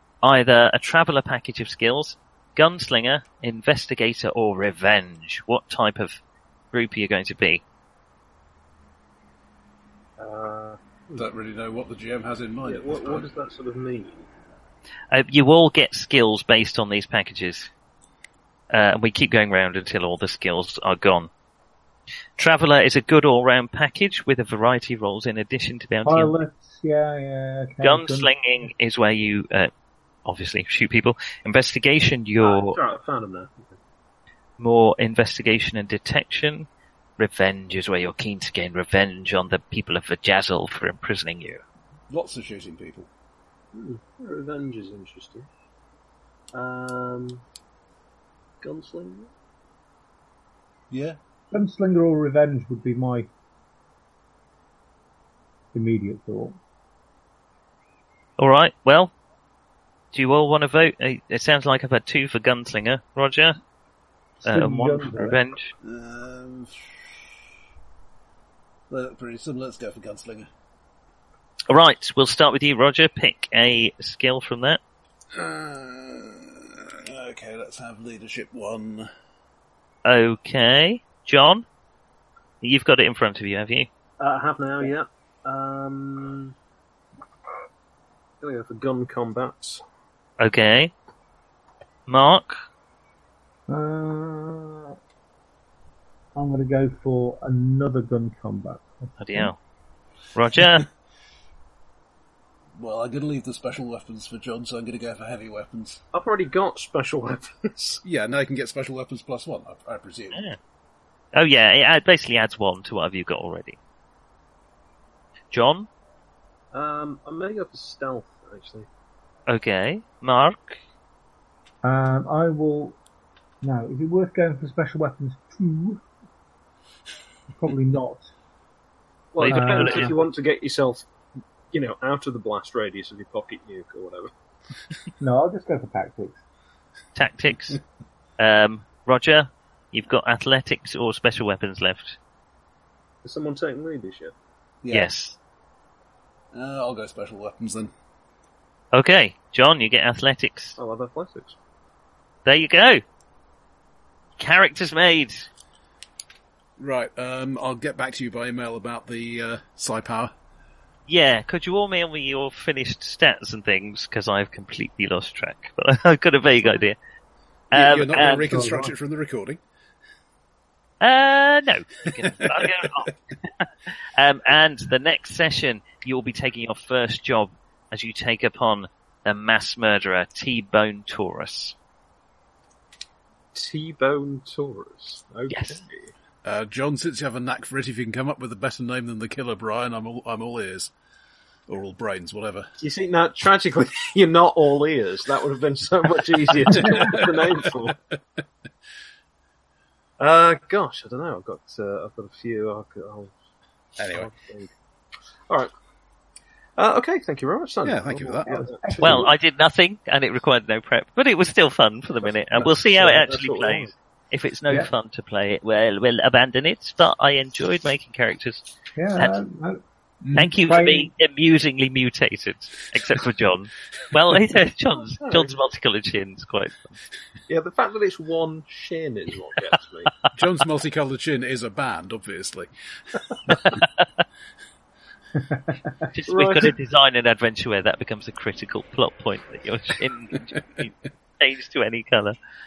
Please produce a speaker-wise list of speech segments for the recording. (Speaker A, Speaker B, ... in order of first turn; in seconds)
Speaker A: 0.2-7.6, 15.1-17.7, 18.7-21.3, 22.4-26.3, 27.8-29.7, 30.2-32.8, 34.6-41.6, 58.4-59.1, 60.1-63.6, 64.4-65.7, 71.7-74.8, 80.0-81.6, 82.6-83.9, 90.4-90.9, 92.1-92.6, 99.2-99.6, 100.3-100.9, 110.3-110.6, 111.3-113.8, 115.5-115.9, 119.5-120.8, 129.4-130.2, 137.2-137.8, 138.4-142.2, 144.9-145.4, 148.9-150.8, 152.4-153.0, 154.4-155.5, 161.1-167.0, 167.7-168.5, 171.0-181.7, 185.5-185.8, 209.0-218.6, 220.3-227.0, 236.1-242.3
Speaker B: 10.2-11.2, 12.6-14.3, 32.4-33.8, 43.7-45.5, 46.5-47.4, 48.6-49.3, 84.2-86.5, 88.4-89.8, 106.1-108.0, 116.7-118.9, 129.3-131.1, 131.7-134.3, 143.2-144.3, 150.8-151.6, 183.5-186.1, 192.8-197.9, 200.2-203.3, 204.0-204.7, 206.8-209.2, 212.2-213.9, 225.2-225.6, 227.5-230.1, 236.3-236.7
Speaker C: 11.2-13.3, 42.1-43.1, 50.9-51.2, 65.8-67.2, 68.9-70.5, 75.3-79.1, 102.8-106.0, 108.0-110.4, 144.8-145.1, 146.5-147.9, 156.8-160.3, 167.7-169.6, 172.2-172.9, 186.4-190.9, 191.7-192.7, 196.6-197.6, 204.0-204.3, 207.8-208.5, 220.2-220.5, 230.3-232.7, 233.5-233.8
Speaker D: 26.0-28.3, 51.5-53.3, 55.7-56.6, 64.4-65.4, 93.7-94.9, 96.3-99.5, 121.8-123.0, 123.6-126.0, 127.5-128.2, 129.5-130.2, 135.2-136.4, 168.2-168.9, 196.7-197.1, 208.5-209.3, 218.9-219.8, 220.6-221.1, 235.3-236.0